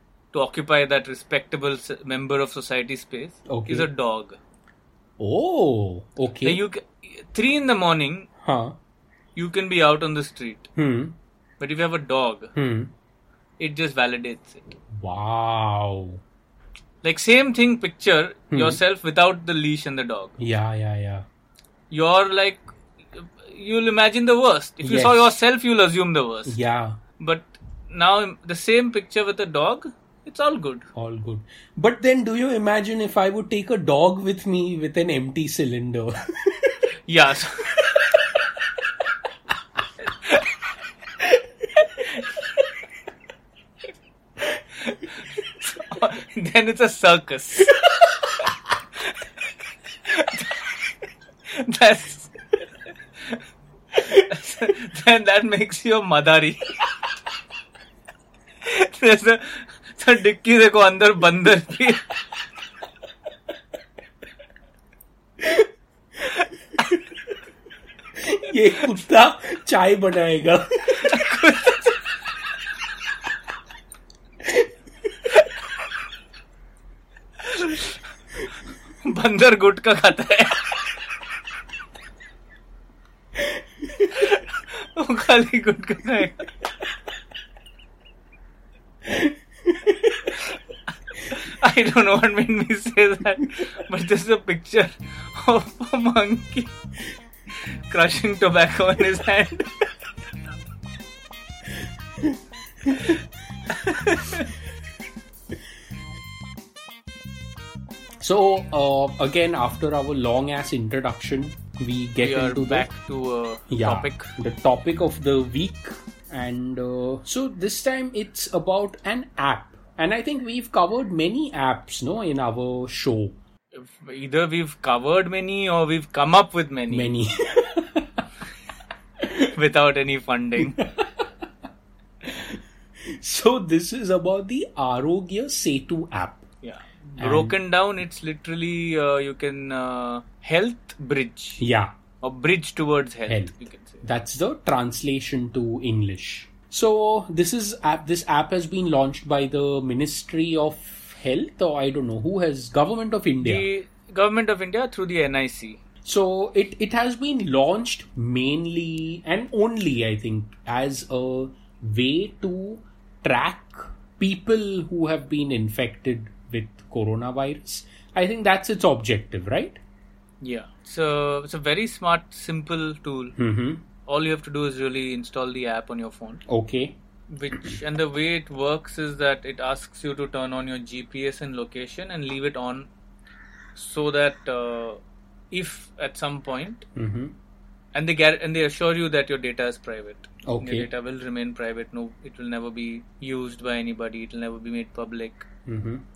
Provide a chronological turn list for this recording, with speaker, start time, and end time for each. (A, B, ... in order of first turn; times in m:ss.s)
0:00.3-0:04.4 A
0:03.5-0:03.9 B
0:05.2-0:06.6 B
0:06.4-0:08.3 A
0:08.4-0:08.8 B
0:09.4-0:10.7 A
0:10.8-0:11.2 B
0:11.6-0:12.5 A
0:12.6-0:12.9 B
0:13.6-0:14.8 A
0:14.9-0:16.2 B
0:17.0-0:20.4 A
0:18.5-0:18.8 B
0:20.4-0:21.3 B
0:21.9-0:26.6 A
0:24.8-0:25.4 B
0:26.4-0:27.0 B
0:27.2-0:30.9 A
0:30.9-0:36.8 B
0:37.1-0:37.8 A
0:44.8-0:47.8 A
0:50.1-0:50.8 A
0:51.5-0:52.4 A
0:54.0-0:56.7 A
0:58.6-1:02.1 A
1:05.4-1:05.7 B
1:08.2-1:11.2 B
1:10.9-1:12.0 A
1:17.5-1:17.9 A
1:19.0-1:20.6 A
1:24.1-1:24.4 A
1:25.0-1:26.5 A
1:29.1-1:30.2 B
1:31.2-1:36.7 A
1:37.9-1:39.7 A
1:42.9-1:43.1 B
1:43.7-1:44.5 A
1:48.2-1:52.9 B
1:52.2-1:54.3 A
1:53.7-2:03.4 B
2:03.7-2:07.1 A
2:06.9-2:08.2 B
2:09.4-2:10.8 A
2:10.6-2:11.3 B
2:12.2-2:16.4 B
2:16.6-2:21.6 A
2:17.2-2:17.6 B
2:21.6-2:21.9 B
2:22.2-2:24.1 A
2:23.3-2:33.7 B
2:33.4-2:35.8 A
2:36.0-2:49.8 B
2:50.4-2:53.4 A
2:53.4-2:53.9 B
2:54.1-2:56.4 A
2:56.5-2:57.0 B
2:57.3-3:02.9 A
3:03.8-3:05.0 A
3:05.5-3:06.9 A
3:07.0-3:07.4 B
3:07.9-3:15.5 A
3:10.4-3:10.9 B
3:15.6-3:16.0 B